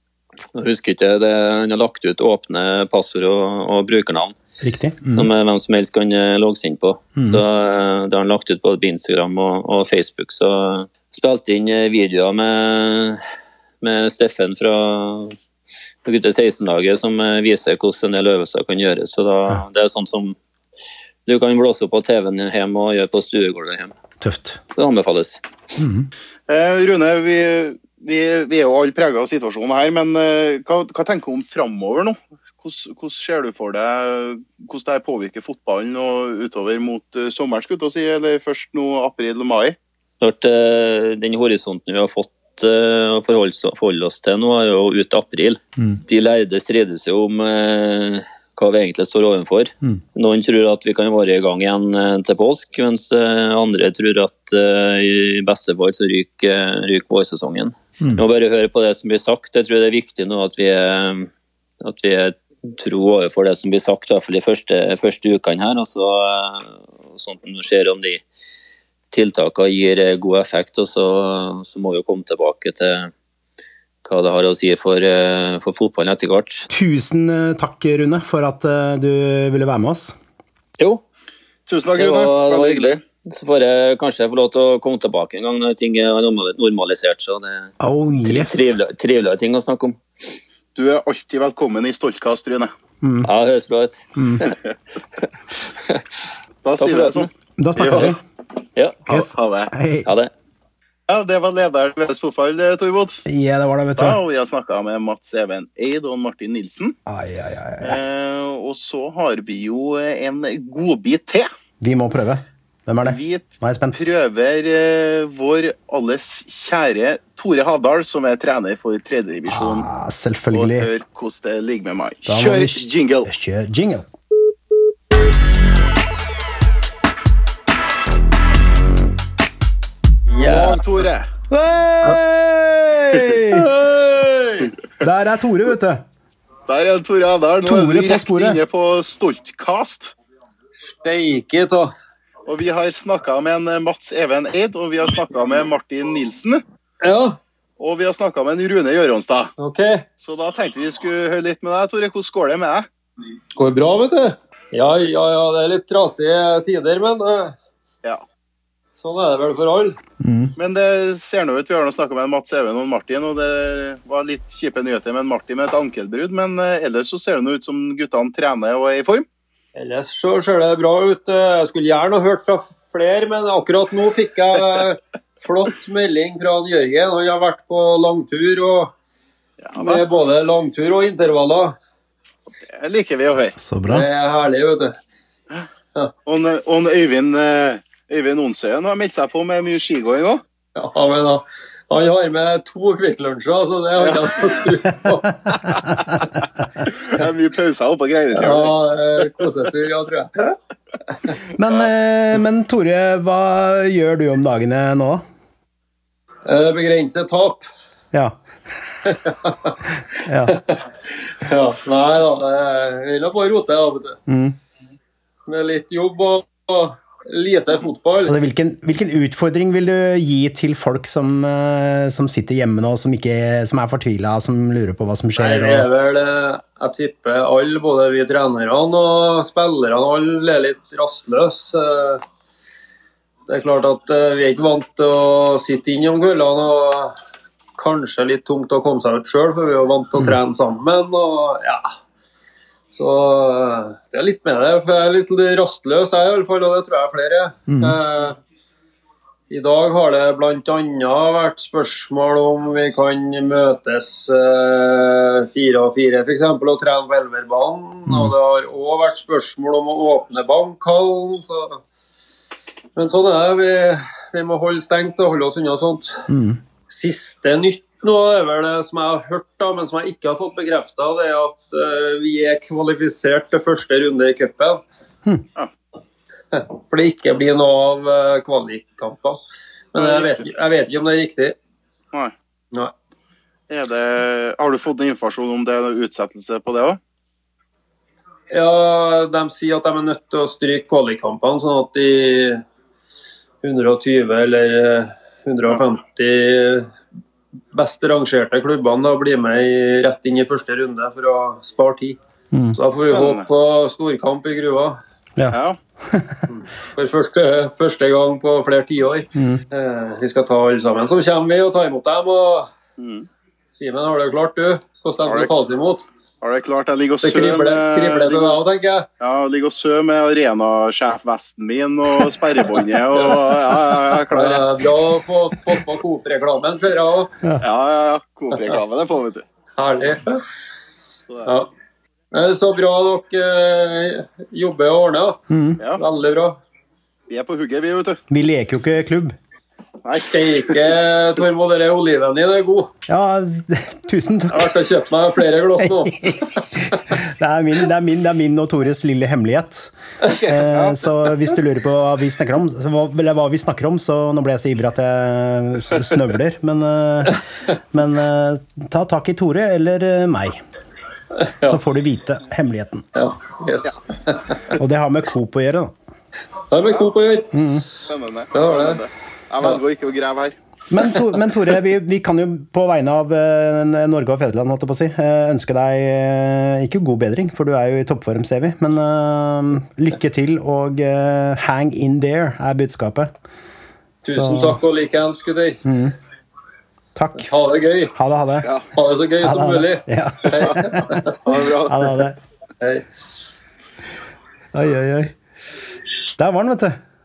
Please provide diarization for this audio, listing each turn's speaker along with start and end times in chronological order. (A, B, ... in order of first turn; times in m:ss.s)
0:00.5-0:04.4 A
0:04.6-0:05.3 B
0:05.1-0:13.2 A
0:07.2-0:07.4 B
0:13.8-0:15.4 A
0:16.0-0:20.4 A
0:21.2-0:23.9 A
0:24.2-0:24.6 B
0:24.7-0:25.4 A
0:25.8-0:26.1 B
0:26.5-0:39.8 C
0:40.2-1:01.3 A
1:01.8-1:08.2 A
1:09.1-1:13.1 A
1:14.0-1:16.7 A
1:16.7-1:20.2 B
1:21.7-1:23.0 C
1:22.0-1:27.7 A
1:27.8-1:28.8 B
1:28.2-1:30.4 A
1:30.7-1:32.7 C
1:33.0-1:33.3 B
1:33.2-1:34.5 A
1:34.2-1:34.5 B
1:35.2-1:36.0 A
1:36.6-1:38.2 C
1:36.8-1:37.3 A
1:37.6-1:38.2 B
1:38.8-1:39.0 A
1:39.1-1:40.1 B
1:39.1-1:39.7 C
1:40.0-1:40.3 A
1:41.1-1:43.2 C
1:43.3-1:44.2 B
1:44.0-1:47.0 C
1:47.0-1:48.0 B
1:47.8-1:51.5 C
1:51.8-1:54.0 B
1:53.0-1:59.9 C
1:59.5-2:00.9 B
2:00.5-2:03.3 C
2:02.3-2:04.1 B
2:10.3-2:10.7 D
2:10.4-2:11.3 C
2:11.5-2:13.7 B
2:15.0-2:16.0 B
2:16.7-2:20.1 C
2:17.6-2:18.6 B
2:20.9-2:21.9 D
2:22.5-2:26.6 C
2:27.0-2:27.4 D
2:27.8-2:29.5 C
2:29.6-2:30.0 D
2:30.2-2:32.9 C
2:33.6-2:37.6 D
2:39.0-2:40.0 D
2:40.2-2:40.5 B
2:40.6-2:49.2 C
2:49.8-2:58.9 D
2:59.6-3:00.0 C
2:59.8-3:01.7 D
3:02.7-3:03.6 C
3:03.6-3:04.0 B
3:03.8-3:05.0 D
3:06.2-3:10.4 C
3:10.8-3:15.4 D
3:14.0-3:14.3 C
3:15.7-3:16.4 B
3:17.0-3:18.8 C
3:18.3-3:20.4 D
3:21.5-3:25.2 B
3:26.4-3:27.6 D
3:29.3-3:29.7 D
3:30.2-3:30.6 B
3:30.5-3:30.8 D
3:31.4-3:34.2 D
3:34.3-3:34.6 B
3:35.4-3:38.3 D
3:38.2-3:45.9 B
3:45.4-3:52.2 D
3:53.5-3:57.2 D
3:57.8-4:01.9 D
4:02.9-4:08.4 D
4:07.7-4:08.0 B
4:09.5-4:21.9 D
4:18.1-4:18.3 B
4:23.0-4:26.2 D
4:26.3-4:26.6 B
4:26.9-4:34.8 D
4:36.5-4:41.6 D
4:40.0-4:40.5 C
4:43.7-4:47.0 C
4:48.5-4:52.6 D
4:53.6-4:56.9 D
4:57.7-5:02.2 D
5:02.5-5:02.8 B
5:02.7-5:05.0 D
5:03.1-5:03.5 C
5:05.4-5:06.4 B
5:05.5-5:05.8 C
5:06.5-5:12.7 D
5:09.3-5:09.6 B
5:13.0-5:13.3 C
5:13.7-5:16.1 D
5:15.2-5:15.5 C
5:16.4-5:18.6 C
5:17.2-5:19.1 D
5:19.2-5:24.7 C
5:23.1-5:27.3 D
5:27.6-5:29.4 C
5:29.8-5:30.4 D
5:31.4-5:31.7 D
5:32.3-5:35.4 D
5:35.5-5:35.8 B
5:35.9-5:36.6 D
5:37.3-5:38.2 C
5:38.3-5:39.4 B
5:40.0-5:40.9 C
5:40.2-5:42.9 D
5:43.1-5:44.8 B
5:44.5-5:46.6 D
5:45.8-6:00.6 B
5:50.2-5:51.1 C
6:01.6-6:03.0 B
6:03.1-6:04.8 D
6:04.8-6:05.9 B
6:06.7-6:09.0 D
6:06.8-6:07.1 C
6:07.5-6:07.8 B
6:08.0-6:10.6 C
6:10.9-6:23.3 B
6:24.2-6:25.8 D
6:24.3-6:24.8 B
6:25.8-6:26.1 B
6:27.1-6:27.5 B
6:27.4-6:28.1 D
6:28.1-6:28.7 B
6:28.9-6:31.4 D
6:29.4-6:31.2 B
6:31.4-6:32.2 C
6:31.8-6:32.4 B
6:32.8-6:33.1 D
6:34.7-6:35.3 B
6:36.4-6:37.0 B